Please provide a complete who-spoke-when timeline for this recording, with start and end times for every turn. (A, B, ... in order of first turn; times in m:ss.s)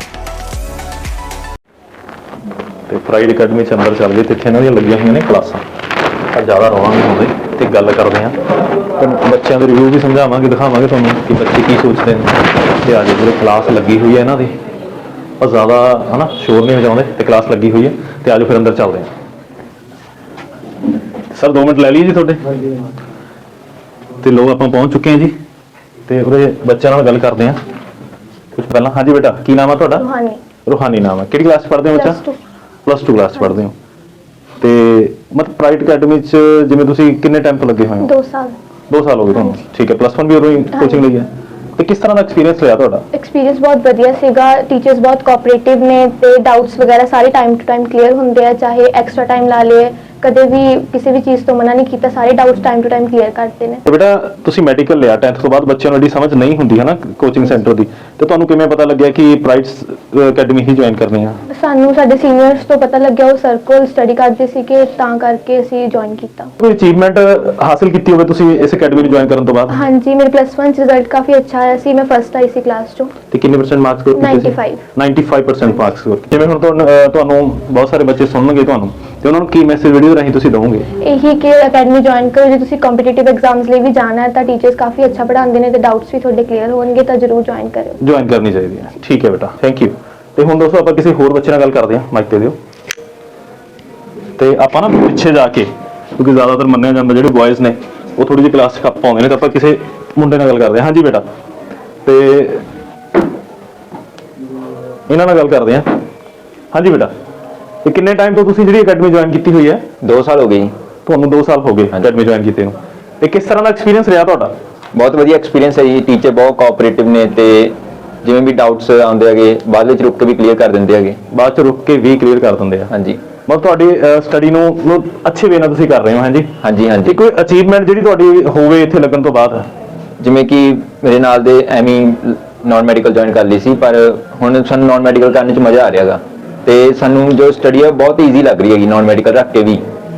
0:02.9-0:05.6 A
0:06.3-0:08.4 A
0:09.0-0:14.6 A
0:15.4-0:19.1 A
0:21.3-0:22.4 A
0:24.2-0:25.3 A
0:26.1-0:27.6 A
0:28.6-0:30.0 A
0:30.0-0:30.4 B
0:30.7-0:32.2 A
0:31.9-0:32.4 B
0:32.9-0:33.8 A
0:34.6-0:38.1 A
0:38.0-0:38.6 B
0:38.9-0:43.0 A
0:39.3-0:39.6 B
0:40.8-0:41.0 B
0:43.1-0:53.8 B
0:53.8-1:01.4 A
1:01.5-1:06.5 B
1:06.6-1:09.8 A
1:09.7-1:13.1 B
1:13.3-1:20.9 A
1:14.2-1:14.8 B
1:21.0-1:28.0 B
1:28.0-1:32.6 A
1:34.4-1:41.2 A
1:42.0-1:42.6 A
1:45.1-1:45.9 A
1:46.7-1:47.1 A
1:47.8-1:49.8 A
1:50.0-1:50.7 C
1:51.1-1:54.6 A
1:54.9-2:01.2 C
2:01.3-2:02.9 A
2:02.9-2:03.2 C
2:03.5-2:06.5 A
2:06.6-2:07.2 C
2:07.0-2:09.7 A
2:10.2-2:19.8 C